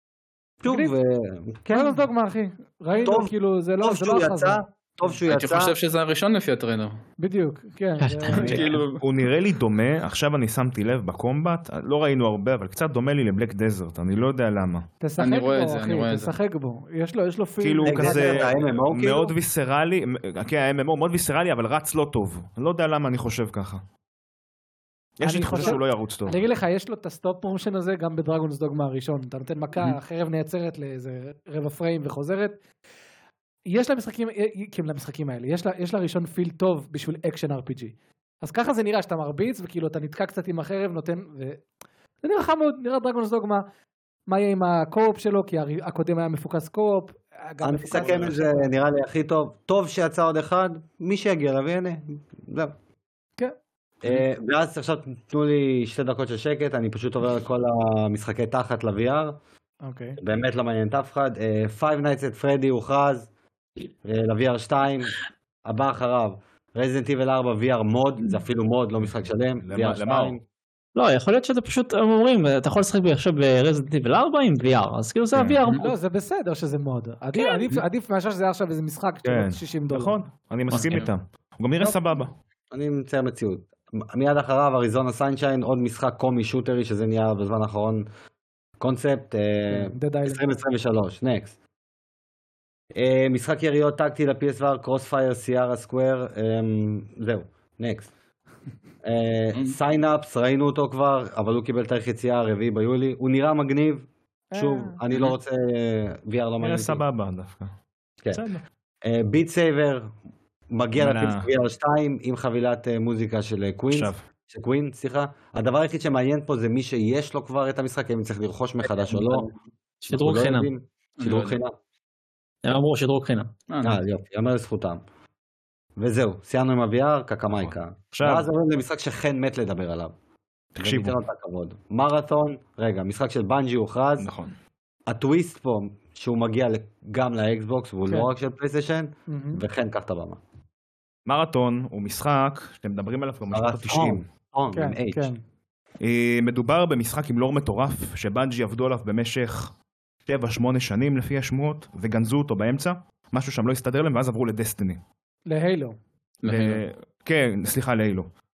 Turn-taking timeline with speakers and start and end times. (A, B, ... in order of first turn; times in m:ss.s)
0:00.6-0:02.1 A
0:00.7-0:00.9 B
0:01.7-0:04.6 B
0:03.0-0:05.7 A
0:05.2-0:07.0 C
0:07.2-0:08.7 B
0:08.0-0:08.6 D
0:08.3-0:09.0 C
0:08.4-0:14.8 E
0:15.0-0:18.5 B
0:15.2-0:16.4 C
0:17.6-0:23.8 E
0:17.8-0:19.3 A
0:25.2-0:26.4 E
0:25.2-0:32.6 B
0:33.7-0:41.6 B
0:42.2-0:43.6 B
0:44.3-0:48.7 B
0:47.6-0:52.7 A
0:54.0-0:59.4 A
0:59.8-1:00.2 B
1:00.2-1:03.3 A
1:04.0-1:10.4 A
1:09.0-1:10.4 E
1:10.9-1:15.8 D
1:15.3-1:15.6 E
1:15.7-1:20.2 B
1:19.2-1:22.3 E
1:20.7-1:21.1 C
1:22.7-1:28.0 A
1:28.8-1:31.5 A
1:29.7-1:30.5 B
1:32.9-1:38.1 A
1:39.0-1:47.0 A
1:39.5-1:39.8 C
1:44.5-1:45.0 B
1:46.6-1:47.7 E
1:48.3-1:48.6 E
1:49.0-1:50.1 A
1:50.7-1:59.5 A
1:50.9-1:51.5 E
1:53.9-1:54.2 E
2:00.0-2:00.7 D
2:00.1-2:01.7 A
2:01.2-2:01.6 C
2:02.6-2:03.5 D
2:03.7-2:04.0 C
2:03.8-2:05.0 A
2:06.0-2:10.1 A
2:07.5-2:08.5 E
2:10.8-2:11.2 E
2:10.8-2:14.3 A
2:14.2-2:14.5 E
2:15.1-2:20.4 A
2:19.3-2:19.6 B
2:21.2-2:24.2 E
2:23.5-2:25.3 A
2:24.7-2:25.4 B
2:26.0-2:29.7 E
2:30.2-2:35.0 E
2:35.5-2:36.0 B
2:36.4-2:36.8 C
2:36.4-2:38.3 E